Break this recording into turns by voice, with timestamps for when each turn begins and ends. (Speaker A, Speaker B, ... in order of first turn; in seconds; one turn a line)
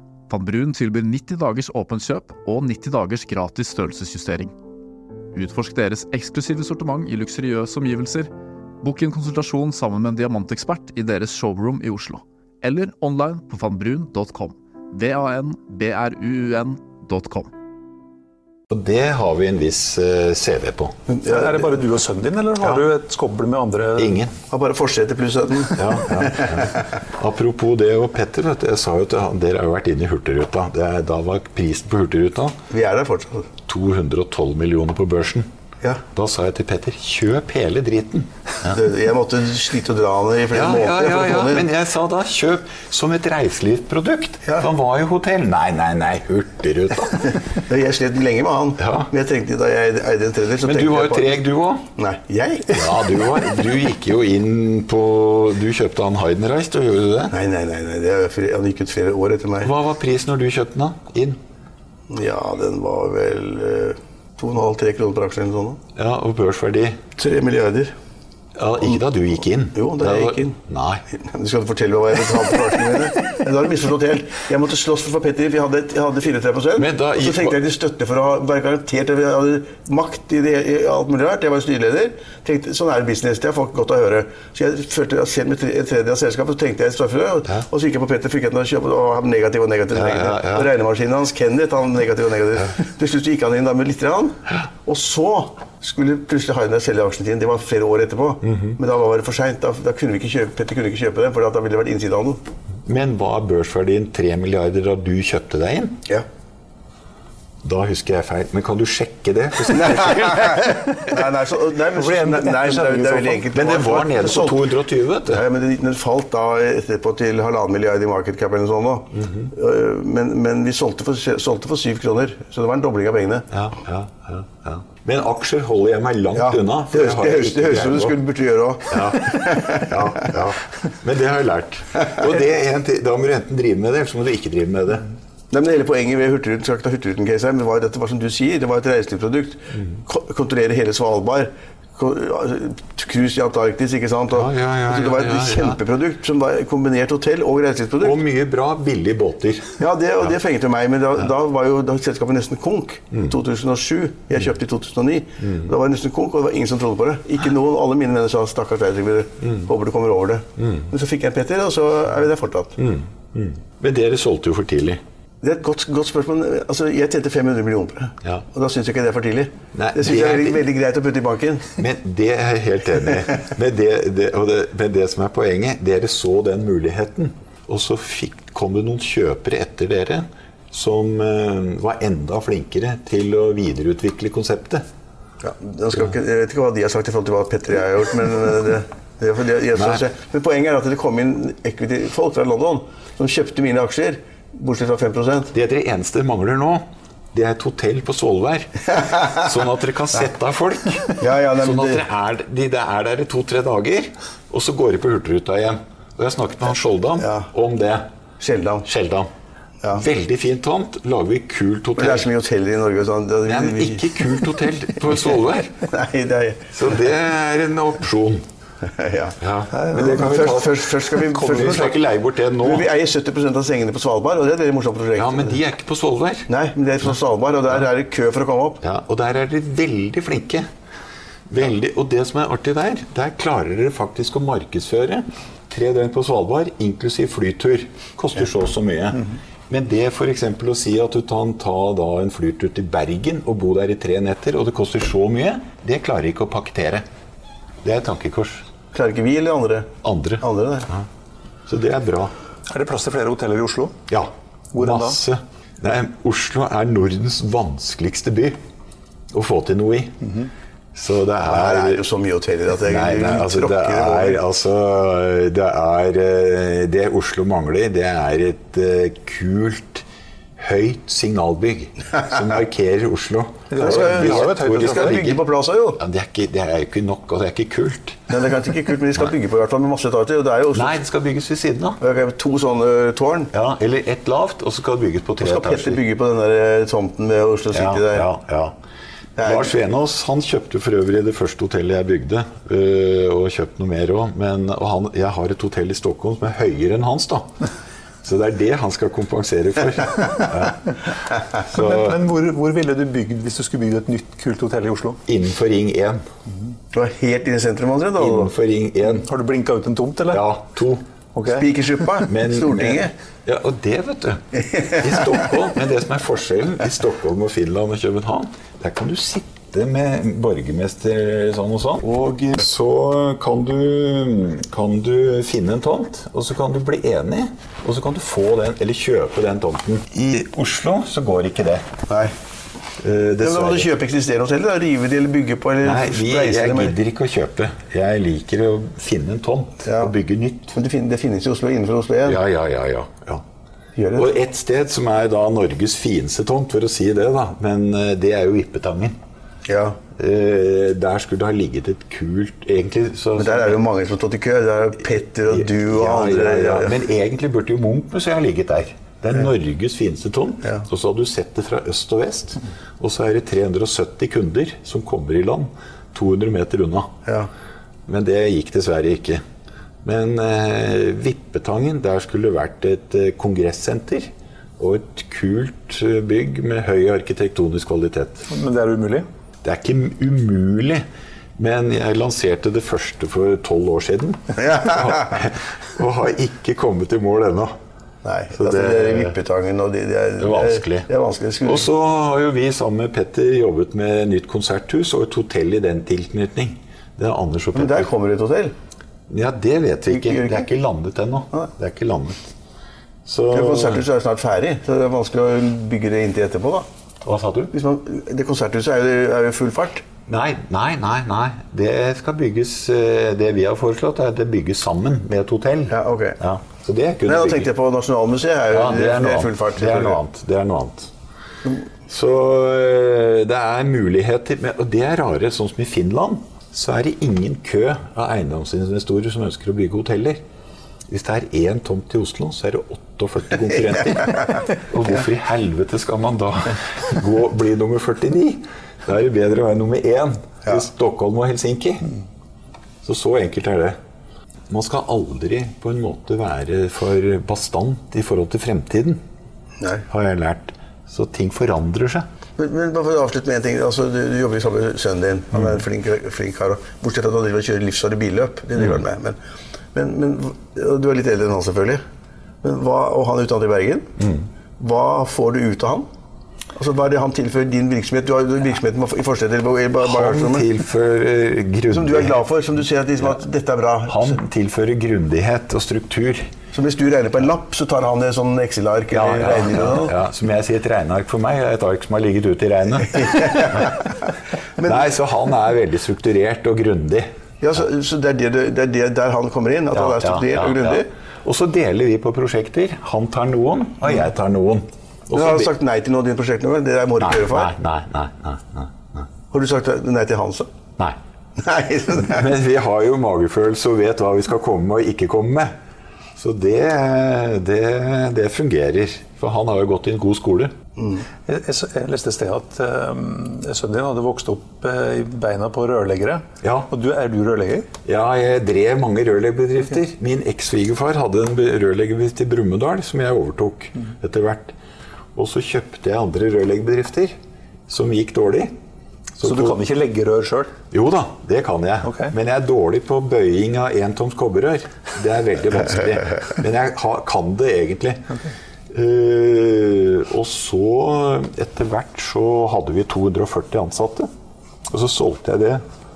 Speaker A: 0.3-4.5
Speaker A: 5.3-8.3
Speaker A: 8.8-17.5
Speaker B: 18.7-21.0
Speaker C: 21.1-21.8
Speaker D: 21.2-24.2
Speaker B: 24.0-24.3
Speaker C: 24.5-26.8
Speaker B: 25.8-32.6
Speaker C: 32.7-33.5
Speaker B: 33.7-35.5
Speaker B: 36.1-38.8
Speaker C: 38.7-41.7
Speaker B: 40.5-47.4
Speaker C: 47.7-51.4
Speaker B: 48.8-49.1
Speaker B: 50.6-51.9
Speaker C: 52.0-53.0
Speaker B: 52.7-57.4
Speaker C: 57.3-59.7
Speaker B: 59.6-61.4
Speaker C: 62.1-65.8
Speaker B: 66.0-67.0
Speaker C: 67.2-67.9
Speaker B: 68.6-71.0
Speaker C: 69.8-70.6
Speaker C: 71.2-102.4
Speaker B: 76.8-77.6
Speaker B: 89.9-90.7
Speaker B: 98.4-98.8
Speaker B: 102.8-106.0
Speaker B: 107.6-110.7
Speaker C: 109.7-114.7
Speaker D: 112.0-113.4
Speaker B: 113.5-115.4
Speaker C: 115.3-123.5
Speaker B: 119.2-119.5
Speaker B: 123.5-128.2
Speaker C: 126.4-130.3
Speaker B: 128.9-135.1
Speaker C: 135.5-148.2
Speaker B: 144.3-145.8
Speaker B: 148.0-149.8
Speaker C: 149.8-162.8
Speaker B: 155.4-155.7
Speaker B: 159.4-159.7
Speaker B: 160.6-160.9
Speaker B: 162.8-165.0
Speaker C: 165.4-171.7
Speaker B: 169.7-170.7
Speaker B: 171.8-184.8
Speaker C: 185.4-195.5
Speaker B: 189.7-190.0
Speaker B: 195.5-208.1
Speaker C: 201.2-202.0
Speaker C: 207.2-207.5
Speaker C: 208.4-208.9
Speaker B: 208.8-209.3
Speaker B: 209.9-212.3
Speaker C: 212.0-214.3
Speaker B: 213.4-215.8
Speaker C: 215.9-216.9
Speaker B: 216.7-218.4
Speaker C: 218.8-219.4
Speaker B: 219.4-222.9
Speaker D: 219.7-220.4
Speaker C: 219.9-222.0
Speaker D: 221.3-221.8
Speaker C: 222.6-225.6
Speaker B: 225.2-226.5
Speaker C: 226.5-228.8
Speaker B: 228.8-230.7
Speaker B: 231.5-247.1
Speaker B: 247.8-248.7
Speaker C: 248.9-249.9
Speaker B: 250.0-251.1
Speaker C: 250.4-250.9
Speaker B: 251.7-252.3
Speaker D: 252.7-253.9
Speaker B: 254.1-258.6
Speaker D: 254.7-255.2
Speaker B: 259.3-260.2
Speaker B: 260.9-262.0
Speaker C: 261.5-264.4
Speaker B: 262.8-270.1
Speaker B: 270.6-275.4
Speaker D: 273.7-275.3
Speaker C: 273.8-276.0
Speaker B: 276.0-278.3
Speaker C: 278.3-281.0
Speaker B: 280.7-282.0
Speaker C: 282.0-283.5
Speaker B: 283.5-286.0
Speaker C: 285.4-288.3
Speaker B: 287.7-288.8
Speaker C: 289.4-289.7
Speaker B: 289.4-297.5
Speaker B: 298.2-300.9
Speaker B: 301.7-302.2
Speaker D: 301.7-305.2
Speaker B: 305.3-306.2
Speaker C: 306.9-308.5
Speaker B: 308.2-309.3
Speaker D: 309.2-310.4
Speaker B: 310.3-311.1
Speaker D: 311.4-311.7
Speaker C: 311.5-313.1
Speaker B: 312.3-331.9
Speaker C: 332.1-332.3
Speaker B: 333.0-333.9
Speaker C: 333.4-336.9
Speaker B: 335.8-340.8
Speaker C: 339.9-340.1
Speaker C: 340.7-342.4
Speaker B: 342.2-343.4
Speaker C: 344.0-344.3
Speaker B: 344.1-349.2
Speaker C: 349.7-350.0
Speaker B: 350.2-353.8
Speaker C: 353.4-356.9
Speaker B: 355.5-367.1
Speaker B: 368.1-369.4
Speaker B: 370.0-378.5
Speaker D: 378.5-379.3
Speaker B: 379.6-381.1
Speaker B: 381.6-387.8
Speaker C: 384.6-385.4
Speaker C: 388.2-391.9
Speaker B: 388.5-389.4
Speaker B: 390.4-391.1
Speaker B: 391.6-398.1
Speaker C: 397.7-398.7
Speaker B: 399.3-402.5
Speaker C: 400.1-400.7
Speaker B: 403.2-404.1
Speaker C: 403.5-406.9
Speaker B: 407.2-407.7
Speaker C: 407.7-410.0
Speaker B: 410.3-417.7
Speaker C: 415.9-416.4
Speaker C: 417.3-420.2
Speaker B: 418.7-421.1
Speaker B: 422.1-430.4
Speaker B: 431.1-442.1
Speaker B: 443.0-444.0
Speaker B: 444.7-449.2
Speaker C: 449.8-450.1
Speaker B: 450.1-452.3
Speaker C: 452.6-459.4
Speaker C: 459.9-462.0
Speaker C: 462.6-464.1
Speaker B: 464.2-464.5
Speaker C: 464.8-466.1
Speaker C: 466.8-470.7
Speaker B: 470.0-472.4
Speaker C: 471.9-474.4
Speaker B: 474.1-476.5
Speaker C: 476.7-480.1
Speaker B: 479.1-484.1
Speaker C: 483.3-484.1
Speaker C: 484.8-485.0
Speaker B: 484.8-487.8
Speaker C: 487.6-491.1
Speaker B: 489.9-495.7
Speaker C: 495.3-497.7
Speaker B: 497.2-499.3
Speaker C: 499.5-500.7
Speaker C: 501.6-502.5
Speaker B: 502.2-505.7
Speaker B: 506.4-510.7
Speaker C: 511.0-511.2
Speaker D: 511.4-517.9
Speaker B: 516.6-516.9
Speaker B: 518.1-524.8
Speaker B: 525.4-527.4
Speaker B: 527.9-528.7
Speaker B: 529.4-529.8
Speaker D: 529.4-530.7
Speaker B: 530.9-538.2
Speaker D: 532.1-532.3
Speaker B: 538.9-544.3
Speaker B: 544.9-545.8